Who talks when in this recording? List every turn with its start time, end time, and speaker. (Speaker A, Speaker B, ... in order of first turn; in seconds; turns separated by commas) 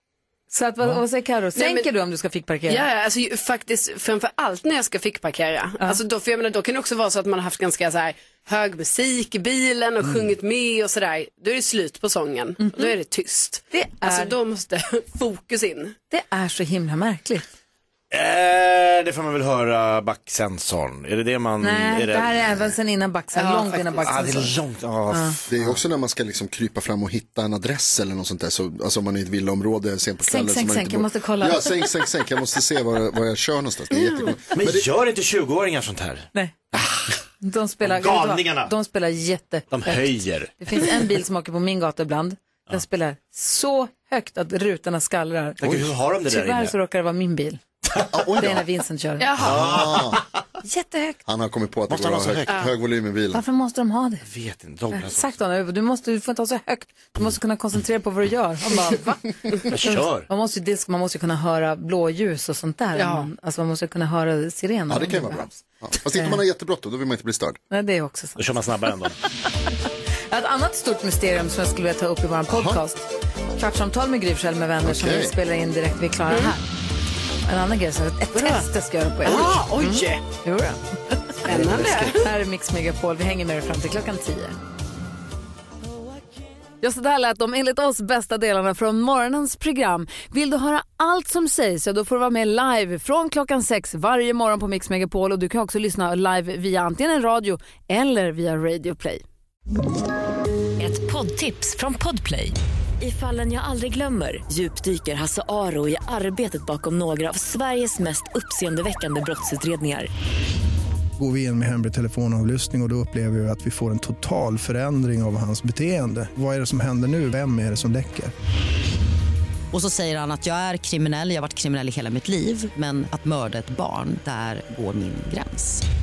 Speaker A: 0.5-2.9, Speaker B: 1.6-1.9, Speaker B: 2.7-16.0, Speaker A: 12.6-12.9, Speaker A: 13.7-14.4, Speaker A: 16.1-17.5, Speaker C: 18.1-22.6, Speaker A: 21.6-24.6, Speaker B: 23.3-24.0, Speaker C: 24.0-25.8, Speaker A: 25.1-25.4, Speaker D: 25.5-34.9, Speaker A: 30.2-31.9, Speaker C: 34.5-37.1, Speaker A: 37.4-45.6, Speaker C: 37.8-38.7, Speaker C: 39.7-40.5, Speaker D: 45.6-45.9, Speaker C: 45.6-46.7, Speaker A: 46.3-47.6, Speaker C: 47.9-48.5, Speaker D: 48.1-48.6, Speaker A: 48.4-49.3, Speaker B: 49.2-49.6, Speaker D: 49.4-50.2, Speaker C: 49.4-50.3, Speaker A: 50.6-51.2, Speaker D: 51.3-53.4, Speaker C: 51.9-52.6, Speaker A: 53.3-54.2, Speaker C: 54.3-55.3, Speaker A: 54.9-65.5, Speaker C: 59.7-60.3, Speaker B: 63.0-63.3, Speaker D: 64.9-67.6, Speaker A: 66.1-66.4, Speaker A: 67.7-68.4, Speaker C: 68.4-69.2, Speaker A: 70.3-73.1, Speaker D: 72.5-72.8, Speaker A: 73.6-76.6, Speaker D: 74.8-75.4, Speaker B: 76.3-76.5, Speaker A: 77.5-84.6, Speaker B: 78.4-78.7, Speaker B: 79.2-80.2, Speaker B: 81.5-82.3, Speaker A: 86.8-99.2, Speaker E: 100.8-110.1, Speaker F: 111.2-118.3, Speaker G: 119.7-125.8